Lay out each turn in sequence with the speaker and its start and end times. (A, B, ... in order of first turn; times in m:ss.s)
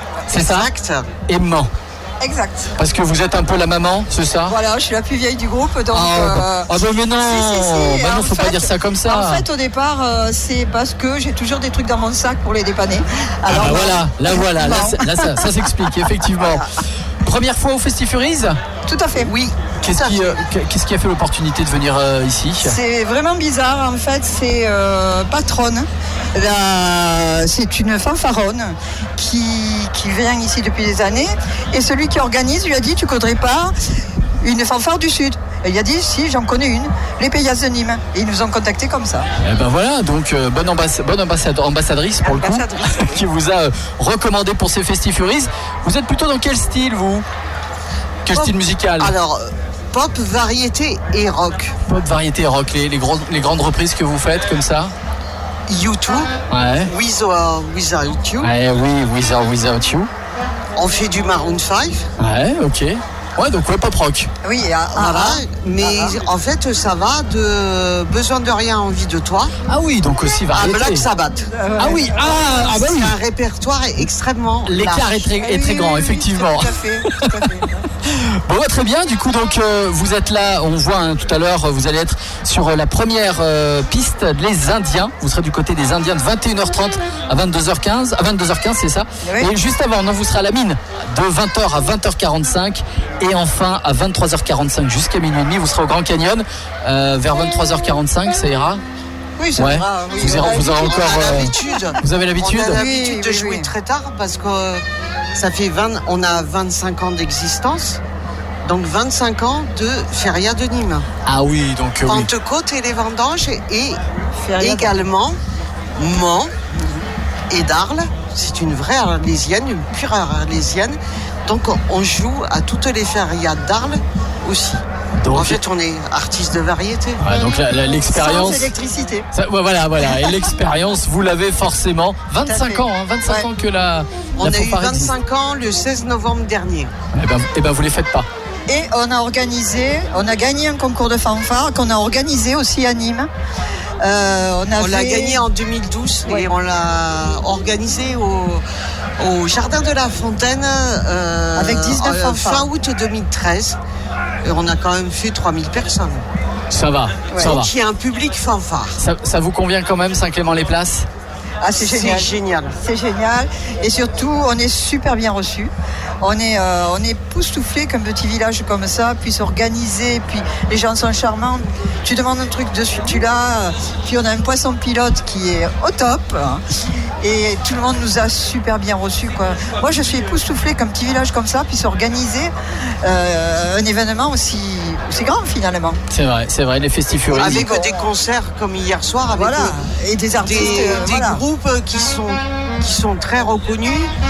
0:00.3-0:00.7 A
0:00.4-0:01.1 B
0:01.3-0:01.7 A
0:02.2-0:02.7 C
0:02.8-0:04.6 A
0:04.4-0:15.7 C
0:05.9-0:09.4 A
0:13.5-0:16.7 A
0:16.4-0:16.6 C
0:17.2-0:18.6 A
0:18.9-0:19.3 C
0:19.2-0:20.4 B
0:19.8-0:22.8 A
0:22.6-0:33.7 C
0:34.4-0:39.3 C
0:39.4-0:47.2 A
0:42.2-0:43.2 C
0:48.3-0:49.1 A
0:48.3-0:51.8 B
0:51.9-0:54.9 A
0:55.7-0:56.3 B
0:56.5-0:56.9 A
0:56.9-0:58.5 B
0:58.4-1:00.1 A
1:00.8-1:02.1 B
1:02.2-1:04.3 A
1:04.4-1:06.2 C
1:05.0-1:09.5 B
1:09.7-1:11.0 A
1:10.5-1:11.5 B
1:11.5-1:12.7 C
1:11.8-1:13.1 A
1:12.4-1:15.1 B
1:14.6-1:38.8 A
1:15.4-1:17.8 C
1:29.2-1:29.5 C
1:39.4-1:41.0 C
1:39.6-1:42.8 A
1:40.3-1:44.8 B
1:42.7-1:43.7 C
1:45.4-1:48.0 B
1:48.6-1:51.1 B
1:51.3-1:52.3 A
1:52.1-1:54.0 B
1:54.4-1:55.0 C
1:54.6-1:55.4 B
1:56.0-1:56.5 B
1:57.5-2:07.2 B
2:05.2-2:05.6 A
2:07.2-2:08.7 A
2:08.1-2:09.3 C
2:09.3-2:15.1 A
2:10.1-2:10.3 C
2:12.4-2:13.5 C
2:14.4-2:16.9 B
2:17.1-2:18.3 A
2:18.7-2:23.3 C
2:24.0-2:25.4 C
2:24.7-2:28.6 B
2:29.2-2:33.8 B
2:31.6-2:32.7 C
2:34.4-2:36.2 B
2:36.7-2:37.7 A
2:37.4-2:39.0 B
2:39.0-2:41.1 A
2:41.6-2:56.6 C
2:41.8-2:42.8 B
2:57.2-3:06.0 C
3:06.1-3:07.7 A
3:07.3-3:09.8 B
3:07.4-3:08.1 C
3:09.3-3:11.4 C
3:10.4-3:14.1 B